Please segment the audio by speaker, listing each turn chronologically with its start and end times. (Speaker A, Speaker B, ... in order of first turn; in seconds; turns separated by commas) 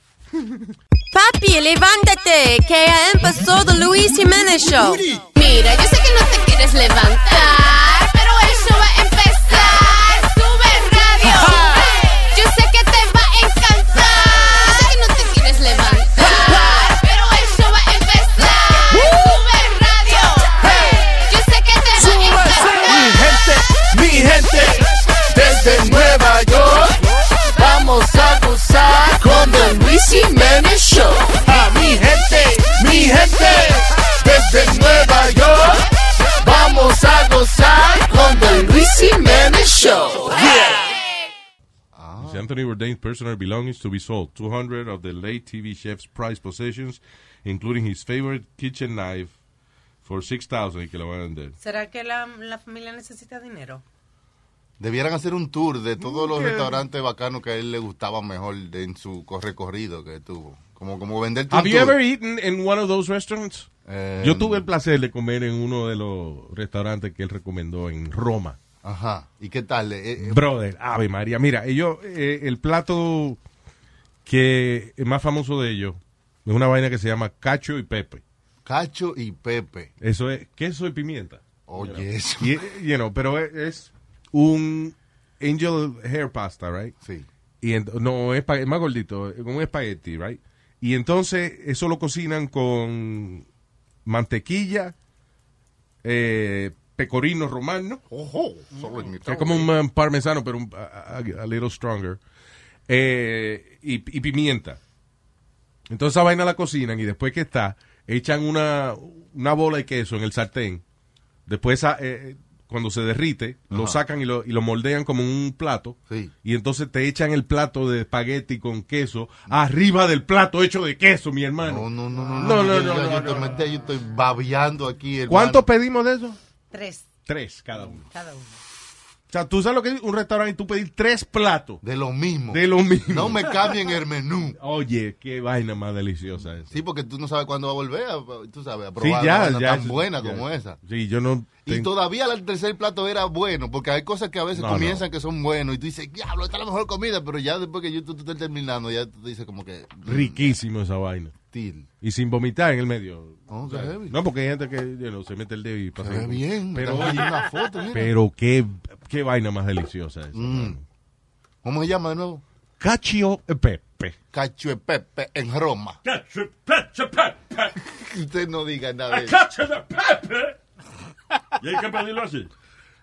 Speaker A: 1.1-5.1, Speaker B: 4.8-5.2, Speaker C: 5.3-23.0, Speaker D: 22.1-23.4, Speaker D: 24.0-24.4, Speaker D: 25.4-26.4, Speaker D: 28.0-29.8, Speaker D: 31.5-33.5, Speaker D: 34.4-35.5, Speaker D: 36.6-37.6, Speaker B: 41.9-42.5, Speaker E: 42.2-49.3, Speaker E: 50.0-51.5, Speaker F: 51.6-53.8, Speaker B: 54.8-62.0, Speaker E: 56.0-56.8, Speaker E: 61.5-63.7, Speaker B: 63.9-64.7, Speaker E: 64.2-68.6, Speaker B: 68.8-70.4, Speaker E: 70.2-73.4, Speaker E: 74.2-78.2, Speaker B: 78.6-79.9, Speaker E: 80.0-87.0, Speaker B: 81.7-82.6, Speaker B: 87.0-87.3, Speaker E: 87.6-93.5, Speaker E: 94.0-94.9, Speaker E: 96.0-98.0, Speaker B: 98.1-99.7, Speaker E: 99.2-102.2, Speaker E: 102.9-104.8, Speaker E: 105.9-110.8, Speaker E: 111.5-123.6, Speaker B: 113.7-114.0, Speaker B: 121.6-125.7, Speaker E: 125.3-126.4, Speaker F: 126.7-127.1, Speaker E: 127.2-128.0, Speaker F: 127.9-128.6, Speaker E: 129.3-131.8, Speaker B: 131.8-134.6, Speaker E: 132.5-133.5, Speaker E: 134.6-136.7, Speaker B: 136.7-140.8, Speaker E: 139.0-141.9, Speaker B: 141.6-150.5, Speaker E: 144.5-145.0, Speaker E: 150.1-151.3, Speaker B: 151.5-151.9, Speaker E: 152.0-157.4, Speaker B: 153.5-154.2, Speaker B: 156.0-158.1, Speaker E: 157.9-160.8, Speaker B: 160.3-160.8, Speaker B: 161.6-162.4, Speaker E: 162.8-164.2, Speaker B: 164.3-166.0, Speaker G: 166.0-167.7, Speaker B: 167.8-169.4, Speaker G: 169.1-170.6, Speaker G: 171.6-172.5